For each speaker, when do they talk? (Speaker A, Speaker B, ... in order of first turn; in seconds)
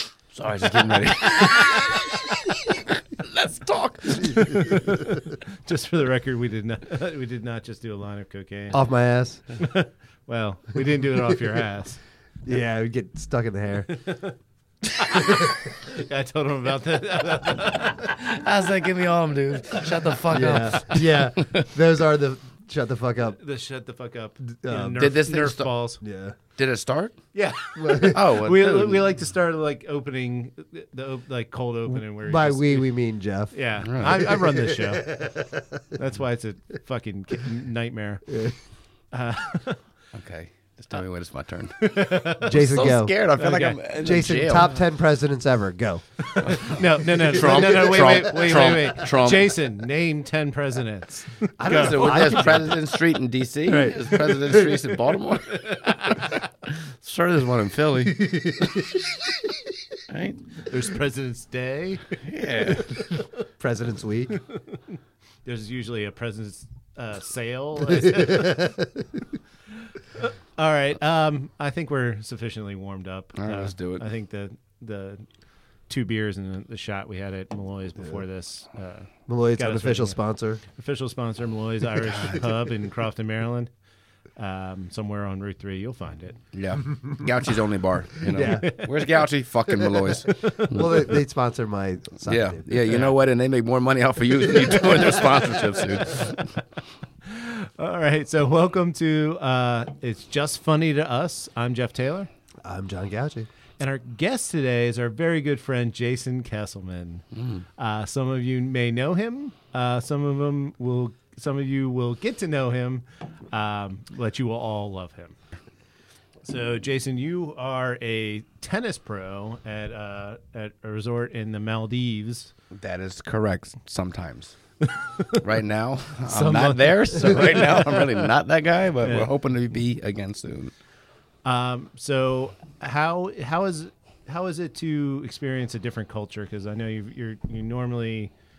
Speaker A: 0.3-4.9, 17.9-21.7, 25.0-25.8, 26.6-27.1, 28.1-29.0, 33.8-34.3, 40.1-44.7, 46.4-49.6, 51.7-59.0, 60.1-60.5, 62.2-62.9, 73.3-74.0, 86.5-91.2, 92.2-96.4, 107.3-107.6, 122.7-124.6, 125.3-130.7
Speaker B: 4.3-5.3, 8.7-9.4, 12.4-13.9, 20.3-23.4, 24.4-25.1, 26.0-26.4, 27.8-28.2, 31.9-33.5, 34.1-35.8, 38.3-38.6, 42.4-43.2, 44.0-46.5, 47.4-48.3, 51.6-52.8, 53.6-54.8, 58.1-58.7, 63.6-64.3, 68.3-68.8, 79.3-80.6, 86.8-87.3, 88.2-88.9, 89.7-93.1, 94.5-95.3, 102.6-103.5
Speaker C: 4.5-8.8, 9.6-12.0, 13.9-14.3, 15.0-18.2, 19.8-20.2, 23.4-26.0, 27.3-32.9, 33.5-35.3, 35.9-38.4, 39.1-39.8, 41.8-43.8, 46.3-52.6, 55.5-56.3, 60.6-63.1, 65.4-68.8, 69.9-75.2, 75.9-83.7, 84.4-86.4, 88.4-89.0, 90.4-90.7, 95.8-96.4, 97.2-102.3, 103.8-107.2, 107.8-115.4, 116.4-122.5, 124.9-125.4, 126.2-128.3, 129.0-129.3, 131.4-138.3